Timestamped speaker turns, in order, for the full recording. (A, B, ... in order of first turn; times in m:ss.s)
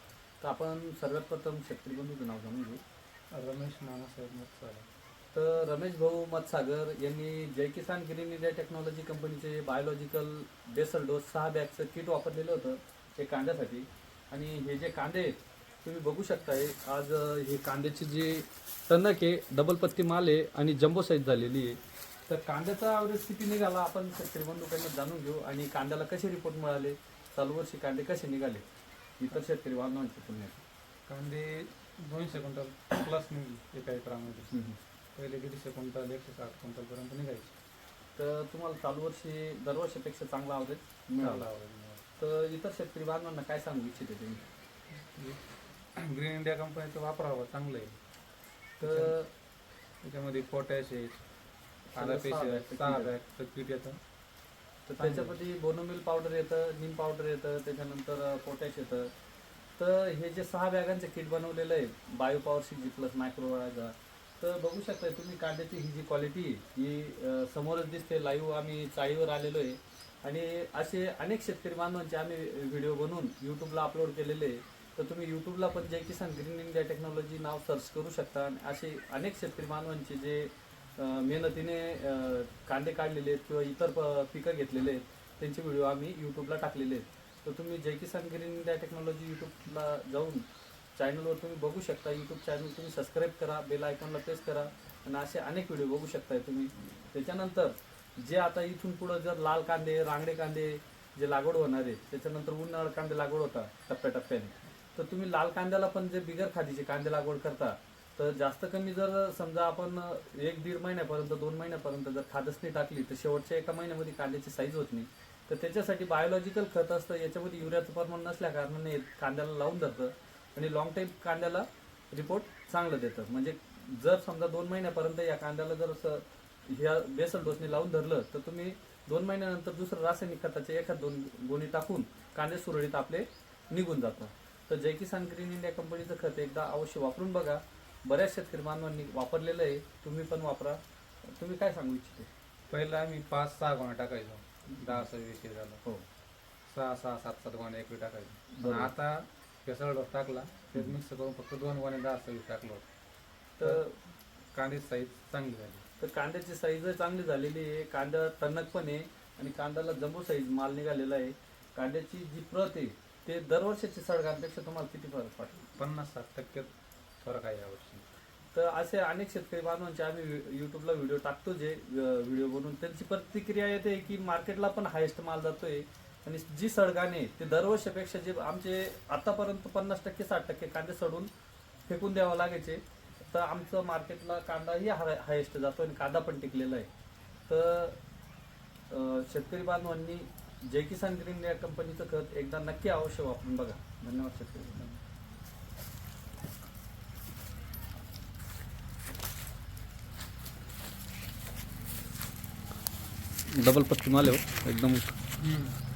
0:00.4-0:02.8 A
0:03.3-0:04.9 B
0:05.3-0:28.6 A
0:29.2-0:30.6 A
0:31.1-0:34.5 B
0:34.5-0:34.8 A
0:35.2-0:37.6 B
0:38.2-0:41.5 A
0:41.2-0:42.0 B
0:42.2-0:44.4 A
0:45.0-0:45.4 B
0:46.0-0:48.0 B
0:48.8-0:49.1 B
0:48.8-0:49.3 A
0:50.0-0:51.2 B
0:51.9-0:54.0 B
0:52.0-0:53.2 A
0:54.9-0:59.1 A
0:55.0-0:55.4 B
0:59.8-1:30.5 A
1:31.0-2:20.8 A
2:21.4-2:22.3 A
2:22.7-2:25.8 B
2:24.7-2:25.1 A
2:26.7-2:32.9 B
2:28.5-2:28.9 A
2:33.6-2:34.0 A
2:34.5-2:35.8 B
2:36.0-2:45.7 A
2:45.8-2:48.0 B
2:48.5-3:01.3 A
3:01.9-3:06.9 A
3:07.5-3:08.0 A
3:08.9-3:15.0 A
3:23.5-3:25.2 A
3:25.4-3:25.8 B